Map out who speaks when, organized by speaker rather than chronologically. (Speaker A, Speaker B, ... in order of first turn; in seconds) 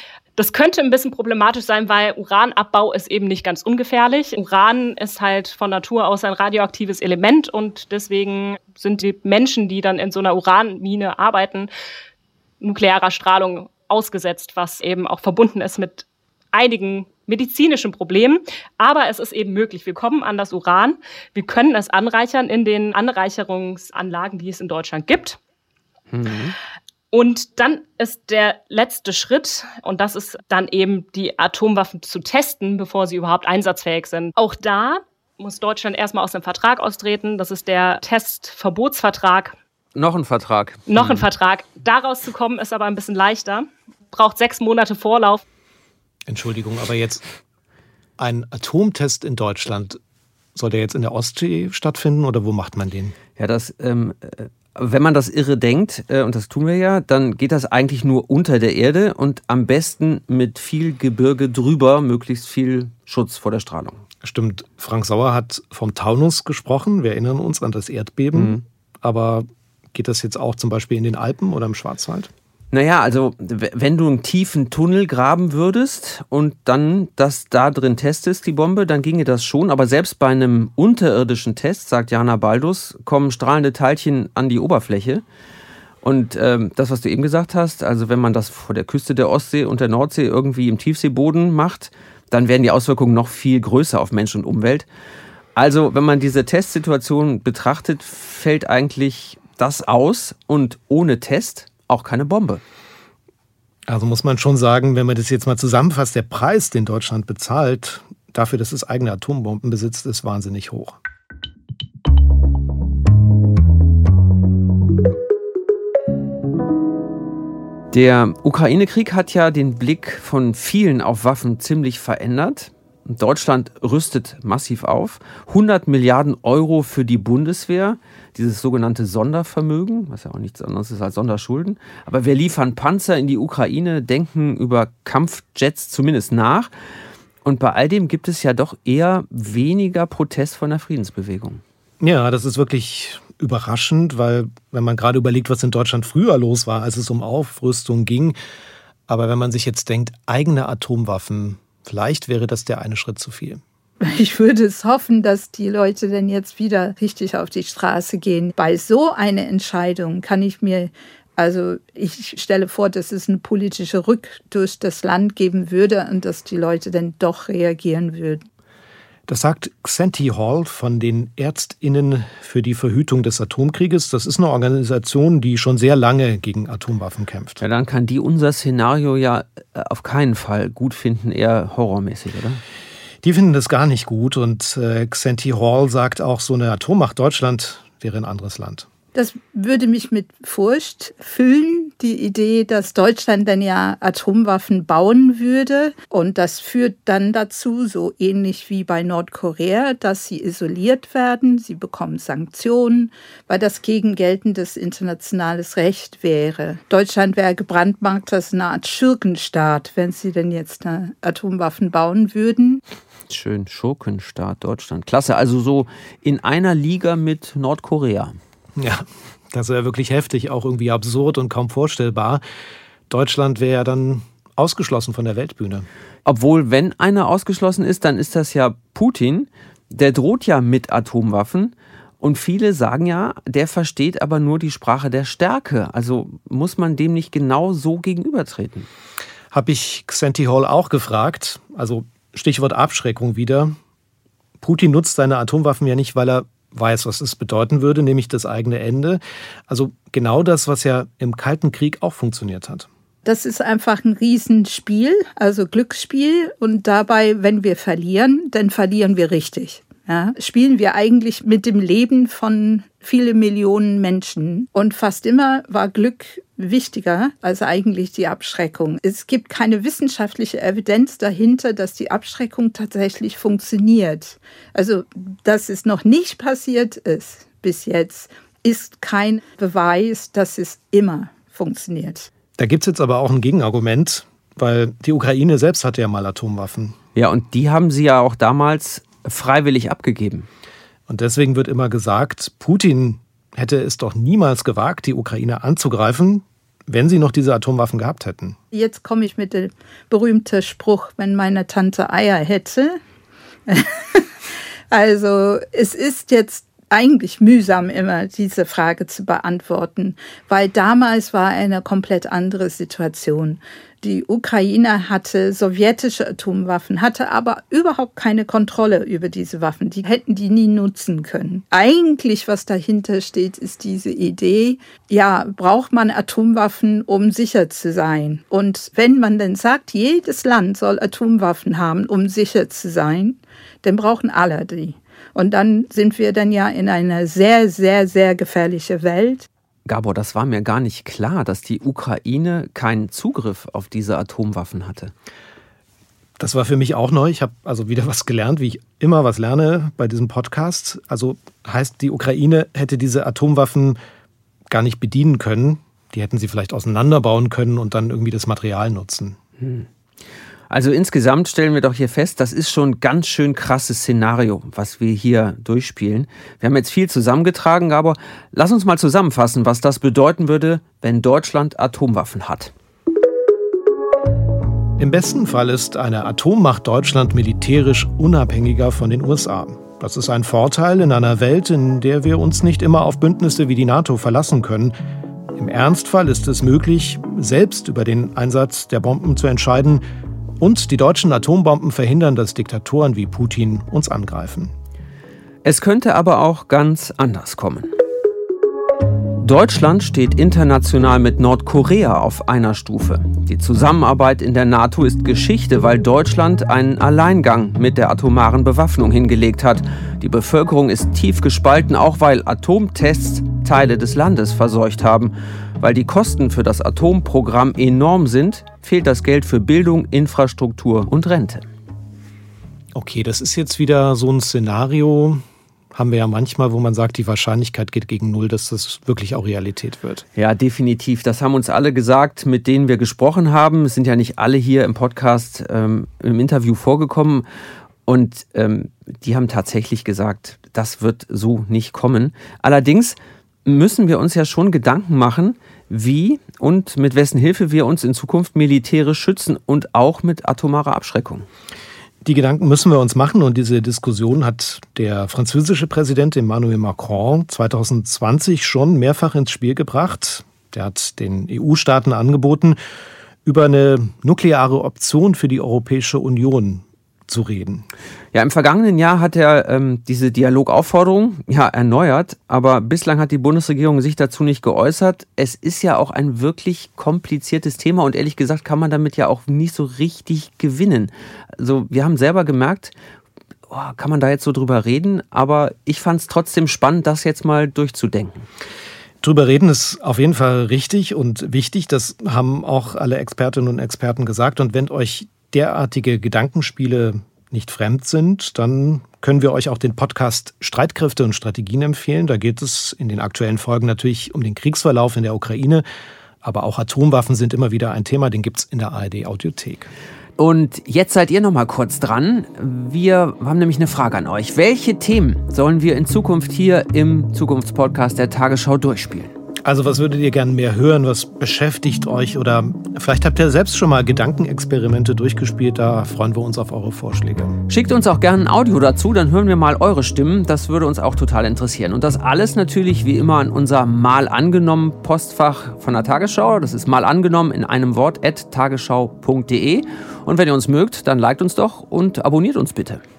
Speaker A: 0.4-11.7, 12.6-25.4, 27.1-39.5, 40.9-45.4
Speaker B: 26.1-26.6, 40.0-41.3, 53.4-64.0, 68.3-68.6, 72.7-85.2, 86.0-94.9, 95.6-102.6, 117.9-136.7, 137.4-141.6, 177.6-182.6, 213.3-218.3, 226.3-238.9, 287.1-290.5, 339.9-345.1, 359.6-359.9, 360.7-372.7, 395.6-397.9, 399.4-421.6, 430.4-437.5, 438.1-451.5, 468.3-482.9, 483.7-488.5, 510.4-519.3, 527.7-543.0
Speaker C: 46.3-47.2, 48.2-50.0, 50.5-53.2, 64.2-72.3, 103.9-111.0, 142.0-148.4, 149.1-153.6, 169.3-177.6, 183.2-188.9, 218.8-222.4, 223.1-225.9, 239.5-243.8, 244.6-252.9, 282.6-287.0, 291.1-298.6, 346.4-354.0, 354.7-359.4, 375.0-384.9, 385.6-390.0, 390.6-394.7, 422.9-430.2, 452.2-462.8, 463.4-467.9, 489.2-505.9, 506.4-509.9, 519.6-527.5
Speaker D: 154.0-168.4, 189.2-212.8, 253.2-282.3, 298.7-303.0, 303.7-304.3, 304.9-339.5